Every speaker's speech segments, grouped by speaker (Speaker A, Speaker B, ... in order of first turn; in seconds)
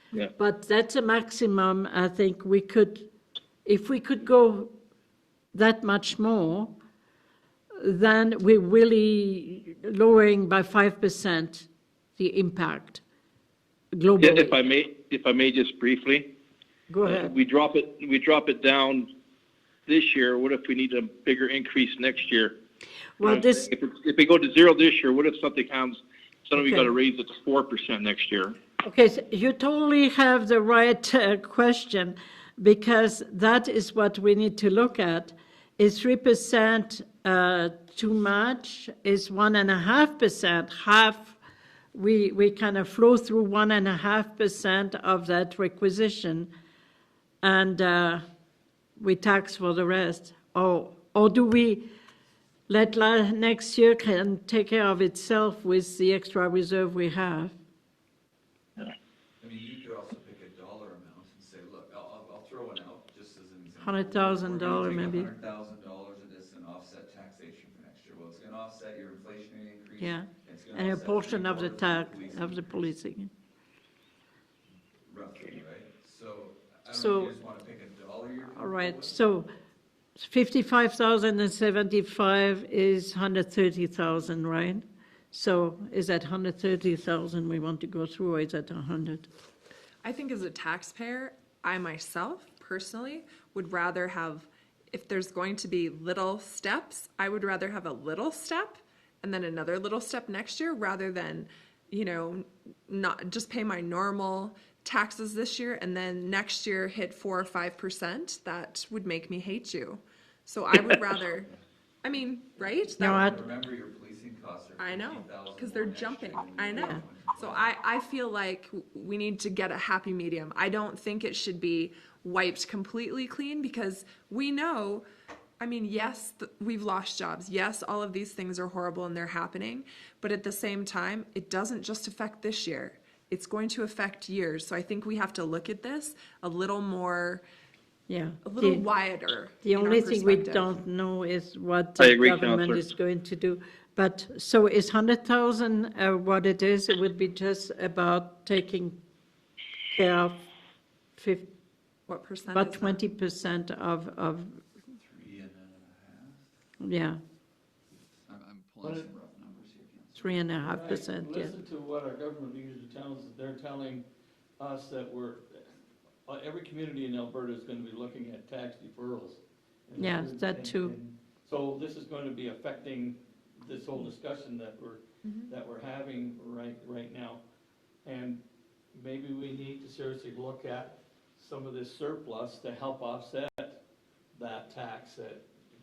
Speaker A: 0.4-3.1, 3.6-4.7, 5.5-6.8, 7.8-13.0, 13.9-14.6, 16.9-17.3, 23.2-23.7, 26.6-26.9, 28.8-41.4, 41.9-46.5, 47.4-48.2, 49.0-51.9, 52.7-57.6, 63.8-65.3, 70.0-73.3, 76.9-77.3, 78.6-79.5, 80.2-89.3, 113.0-113.4, 138.1-138.8, 139.6-149.0, 149.9-150.5, 151.2-151.5, 152.5-154.6, 156.8-157.2, 160.2-161.5, 170.0-170.9
Speaker B: 14.2-16.3, 17.0-19.1, 19.9-22.6, 23.2-28.6, 142.0-142.9
Speaker C: 59.4-72.7, 75.0-79.2, 113.0-117.7, 154.9-156.4, 158.3-160.4
Speaker D: 90.0-111.5, 112.0-113.4, 114.8-125.1, 125.6-137.4, 138.4-140.8, 152.1-153.0, 175.2-175.5
Speaker E: 158.8-159.1, 160.6-164.0, 164.6-165.7, 166.3-177.4, 178.1-178.4, 178.9-183.8, 184.3-185.4